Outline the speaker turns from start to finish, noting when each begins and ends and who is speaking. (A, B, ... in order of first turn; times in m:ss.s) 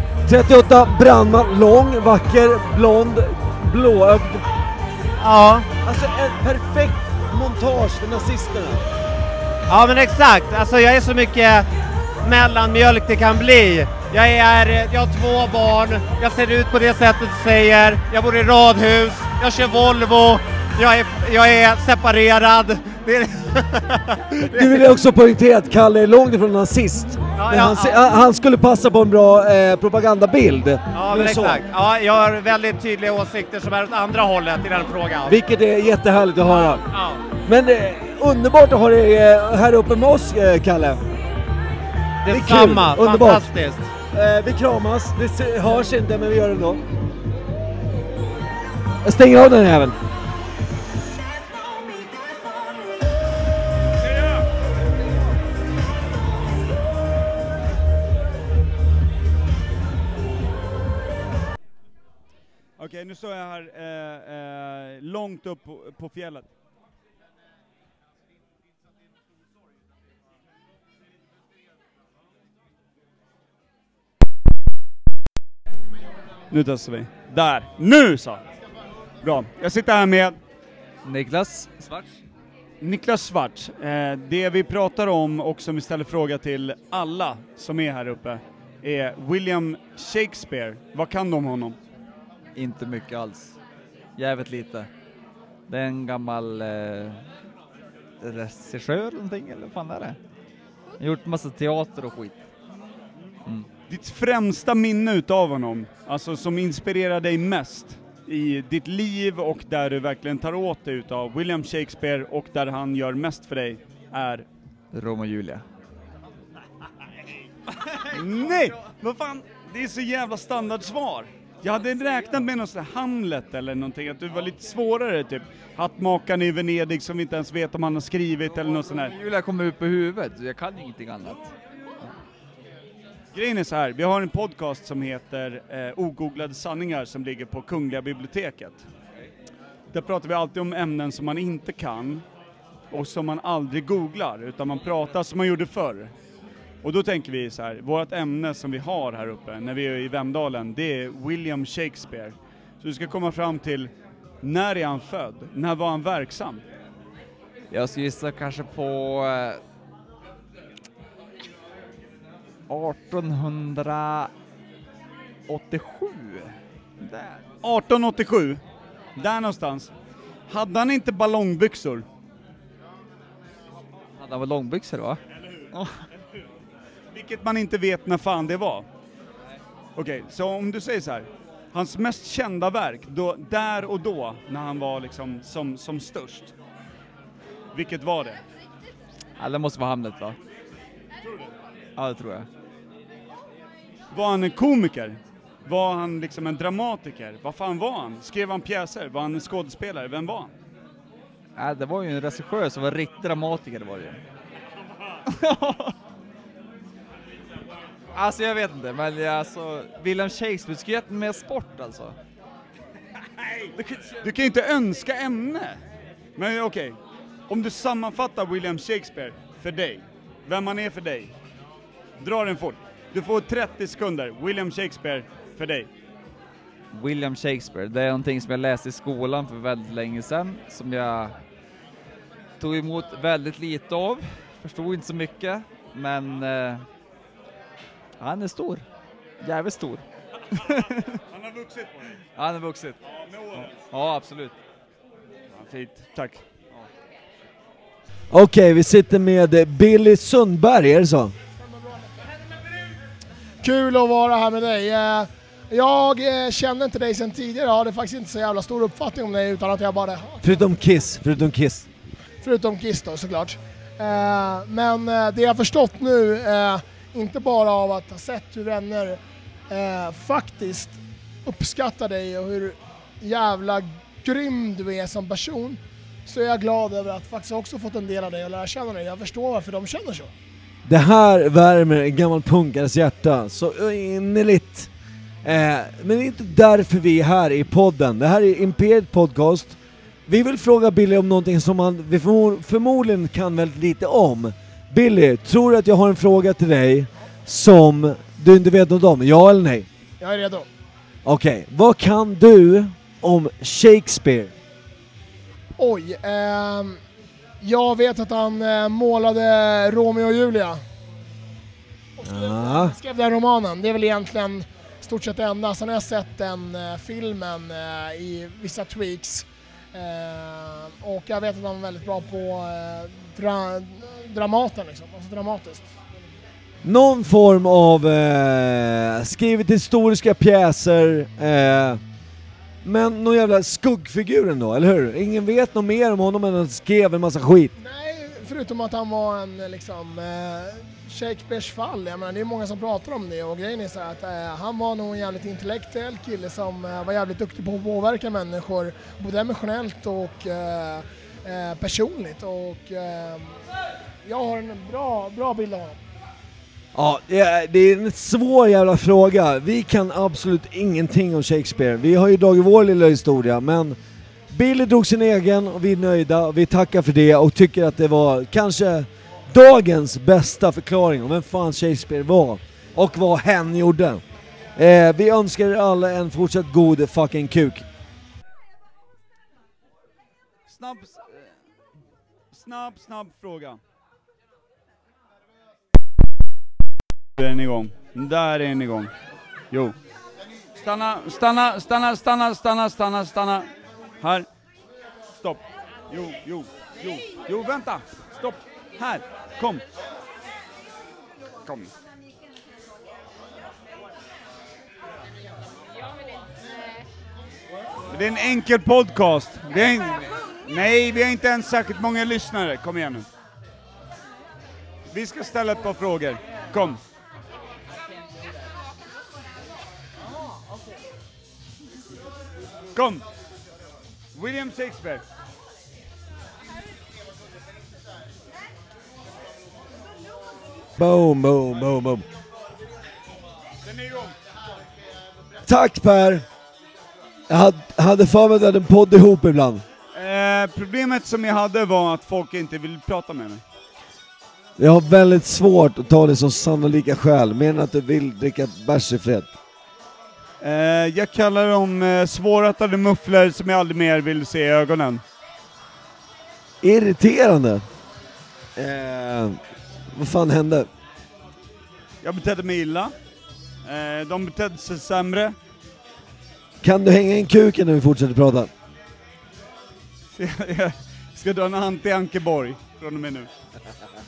0:00.2-0:04.5 A
0:05.2-0:05.7 B
0:05.8-0:08.8 A
0:09.7-0:11.7 B
0:12.2-0:24.8 B
0:24.4-0:31.6 A
0:27.4-0:28.0 B
0:30.9-0:35.4 B
0:35.2-0:36.9 A
0:36.5-0:37.2 B
0:37.4-0:41.0 A
0:42.2-0:43.9 B
0:42.3-0:43.5 A
0:44.1-0:46.8 A
0:49.0-0:50.0 A
1:02.8-1:06.5 C
1:16.5-1:18.4 C
1:19.2-1:20.4 C
1:21.0-1:22.2 D
1:22.8-1:31.8 C
1:32.6-1:33.5 D
1:34.2-1:34.9 D
1:35.7-1:37.2 D
1:38.2-1:40.2 D
1:41.0-1:42.4 D
1:43.9-1:54.5 C
1:54.9-1:55.6 D
1:58.0-2:09.1 C
2:08.8-2:11.5 D
2:13.3-2:18.8 C
2:19.9-2:22.2 C
2:22.9-2:26.1 C
2:26.8-2:33.9 C
2:34.4-2:36.6 C
2:37.7-2:39.6 D
2:42.7-2:44.3 D
2:45.5-2:47.4 D
2:47.6-2:48.6 C
2:49.2-2:49.9 C
2:50.5-2:52.1 C
2:54.2-2:55.2 D
2:57.1-2:58.9 C
3:00.0-3:06.5 C
3:07.7-3:08.4 C
3:09.4-3:10.4 D
3:12.0-3:12.5 D
3:14.1-3:20.5 C
3:21.6-3:24.2 D
3:25.3-3:25.9 D
3:28.1-3:32.2 D
3:33.8-3:34.2 D
3:34.2-3:35.8 C
3:36.4-3:37.0 C
3:37.5-3:41.3 C
3:42.2-3:45.9 C
3:46.9-3:51.3 D
3:52.6-3:56.8 D
3:58.2-3:58.8 D
3:59.4-4:00.0 D
4:00.6-4:01.2 D
4:01.3-4:02.2 C
4:02.4-4:03.0 D
4:03.1-4:03.8 C
4:03.6-4:04.6 D
4:05.5-4:06.4 C
4:08.3-4:11.3 A
4:11.6-4:12.1 E
4:13.6-4:20.6 E
4:20.4-4:21.9 A
4:22.4-4:40.3 E
4:40.8-4:44.9 A
4:45.4-4:49.8 A
4:50.3-4:59.9 A
5:00.2-5:00.7 E
5:01.2-5:04.5 A
5:05.8-5:07.0 E
5:07.6-5:10.8 E
5:12.2-5:25.9 E
5:12.2-5:13.0 A
5:26.8-5:32.0 A
5:32.8-5:37.7 A
5:37.8-5:53.6 E
5:54.2-5:56.0 E
5:56.9-6:04.0 A
6:04.5-6:14.2 A
6:14.8-6:17.9 A
6:20.7-6:21.5 C
6:22.5-6:23.8 C
6:27.4-6:29.1 C
6:29.7-6:30.0 C
6:30.8-6:33.7 C
6:34.2-6:34.5 C
6:35.4-6:39.8 C
6:41.7-6:41.9 C
6:48.1-6:53.3 C
6:55.1-6:57.0 C
7:03.0-7:03.2 C
7:04.3-7:05.2 C
7:11.0-7:12.3 A
7:13.8-7:14.3 C
7:15.6-7:16.4 A
7:17.5-7:19.8 A
7:20.1-7:23.6 C
7:24.8-7:29.5 A
7:30.6-7:35.2 C
7:36.8-7:37.8 A
7:38.8-7:39.6 A
7:40.2-7:40.9 A
7:42.2-7:43.1 C
7:43.8-7:45.6 C
7:46.8-7:48.7 A
7:50.4-7:53.5 C